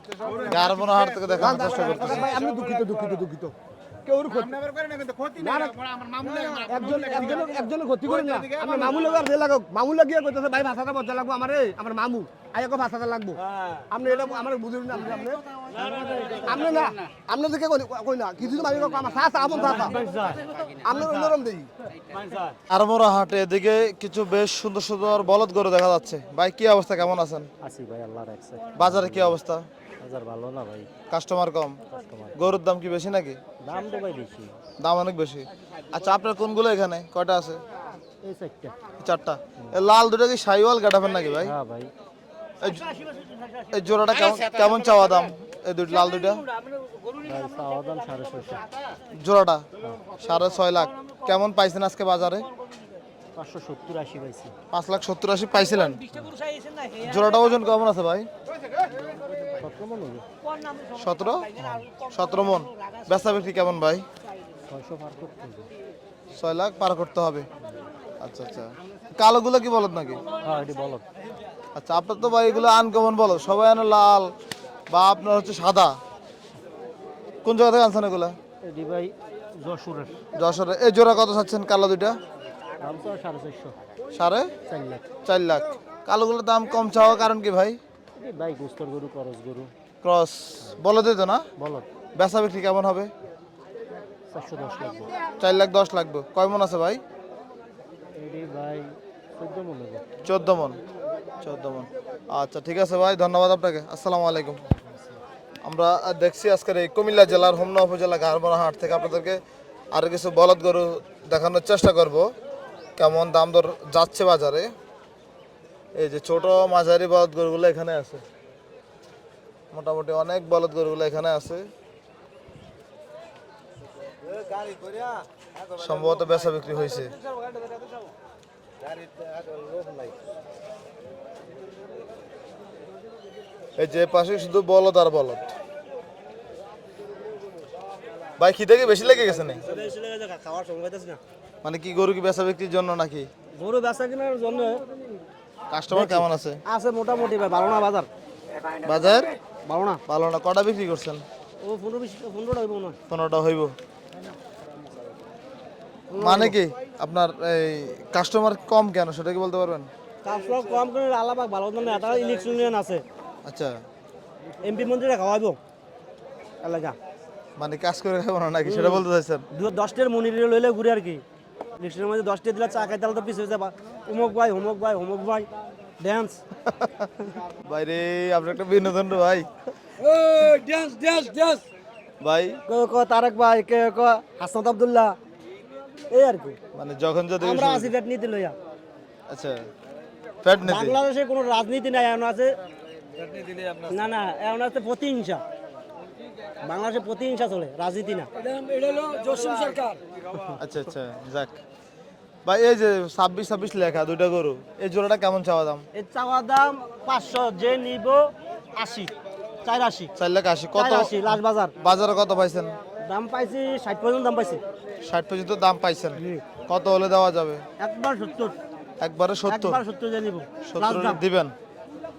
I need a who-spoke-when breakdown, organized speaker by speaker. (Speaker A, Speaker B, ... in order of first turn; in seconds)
Speaker A: 0.2-3.2, 4.3-9.3
Speaker B: 0.5-2.4, 22.7-27.5, 28.8-29.6, 31.1-31.8, 32.4-33.4, 34.8-37.6, 39.0-41.5, 42.6-42.9, 43.7-46.5, 49.1-49.7, 50.2-52.5, 54.7-56.1, 57.0-58.3, 61.0-64.0, 66.3-67.5, 68.2-70.2, 71.8-74.3, 74.9-76.0, 77.4-78.4, 80.3-82.2, 84.1-84.5, 85.2-87.8, 90.0-91.5, 92.2-93.1, 95.4-97.0, 100.2-100.8, 101.4-104.6, 105.6-109.4, 109.9-112.3, 113.0-114.7, 116.0-118.2, 119.7-121.7, 125.8-127.1, 133.8-135.5, 138.4-139.6, 141.6-143.3, 145.7-146.6, 148.8-149.3, 150.1-151.2, 153.1-153.7, 156.2-159.9, 163.4-163.8, 167.6-169.5, 176.7-179.5, 182.2-182.6, 186.7-187.9, 189.3-189.6, 190.4-191.0, 200.6-201.6, 202.4-205.9, 210.2-212.8, 215.0-217.6, 219.0-219.8, 220.6-221.6
Speaker C: 1.4-3.5, 4.0-4.5, 5.4-5.8, 6.6-15.4, 16.4-20.1, 20.8-21.7
Speaker D: 13.3-13.9, 15.7-16.9, 19.5-21.3, 22.1-22.5, 27.6-29.4, 30.0-30.9, 31.9-32.4, 33.6-34.6, 38.2-38.8, 41.5-41.9, 42.8-43.5, 46.4-48.7, 53.4-54.5, 56.1-57.0, 59.6-60.2, 64.7-65.7, 70.4-71.0, 78.6-80.2, 82.8-83.8, 84.7-85.0, 88.2-89.7, 91.6-91.9, 94.3-95.2, 98.2-100.0, 139.6-141.2, 143.6-144.9, 145.9-148.1, 149.7-150.0, 151.6-153.0, 156.1-156.6, 160.2-163.0, 164.6-165.6, 166.6-167.0, 168.7-171.2, 171.8-175.5, 176.0-176.4, 180.0-181.7, 182.7-185.2, 186.1-186.6, 187.4-188.6, 190.6-192.6, 193.4-195.4, 196.6-200.6, 205.9-209.1, 209.6-210.1, 210.8-211.7, 213.0-214.6, 216.2-216.4, 217.8-218.6, 219.5-221.2